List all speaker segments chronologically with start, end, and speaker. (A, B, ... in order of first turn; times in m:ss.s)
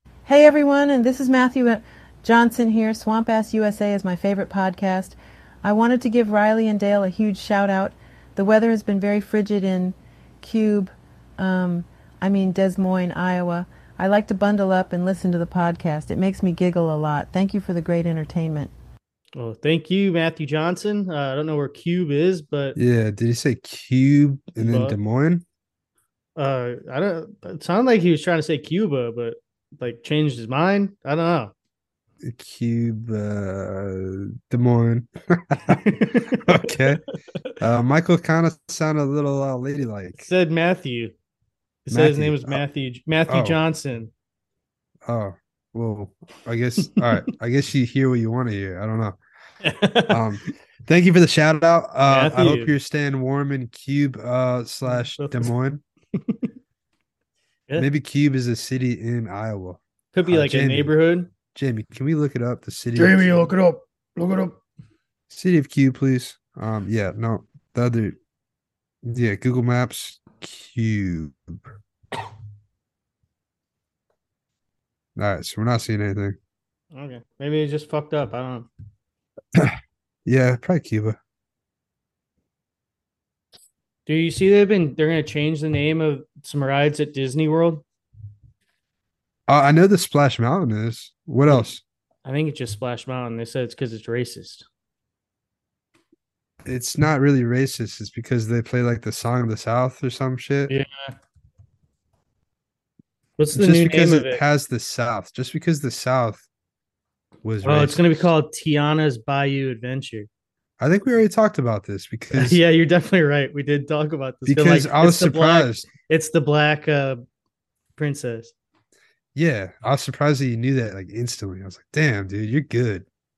0:00.3-0:18.7 A
0:19.4-0:22.8 B
0:22.8-0:25.4 C
0:24.6-0:25.0 B
0:26.4-0:31.5 B
0:32.2-0:35.8 C
0:35.7-0:36.8 B
0:36.3-0:37.0 C
0:37.6-0:40.3 C
0:40.2-0:41.1 B
0:41.9-0:44.1 B
0:41.9-0:42.6 C
0:43.3-0:43.6 C
0:45.0-0:49.2 C
0:49.6-0:50.5 B
0:50.1-0:55.8 C
0:52.1-0:52.7 B
0:55.2-0:55.5 B
0:56.2-0:56.5 B
0:57.8-1:00.9 C
1:00.1-1:01.3 B
1:01.5-1:03.5 C
1:03.0-1:04.6 B
1:05.3-1:08.2 C
1:09.0-1:11.6 C
1:15.2-1:16.4 C
1:16.9-1:18.7 B
1:19.6-1:21.2 C
1:24.1-1:27.8 B
1:29.5-1:31.8 C
1:32.2-1:34.6 B
1:36.6-1:40.7 C
1:40.7-1:41.2 B
1:43.4-1:44.4 B
1:43.6-1:46.4 C
1:47.4-1:48.3 C
1:47.6-1:50.3 B
1:50.8-1:52.6 C
1:52.4-1:57.2 B
1:54.5-1:55.9 C
1:58.0-1:58.5 B
1:59.4-2:03.0 C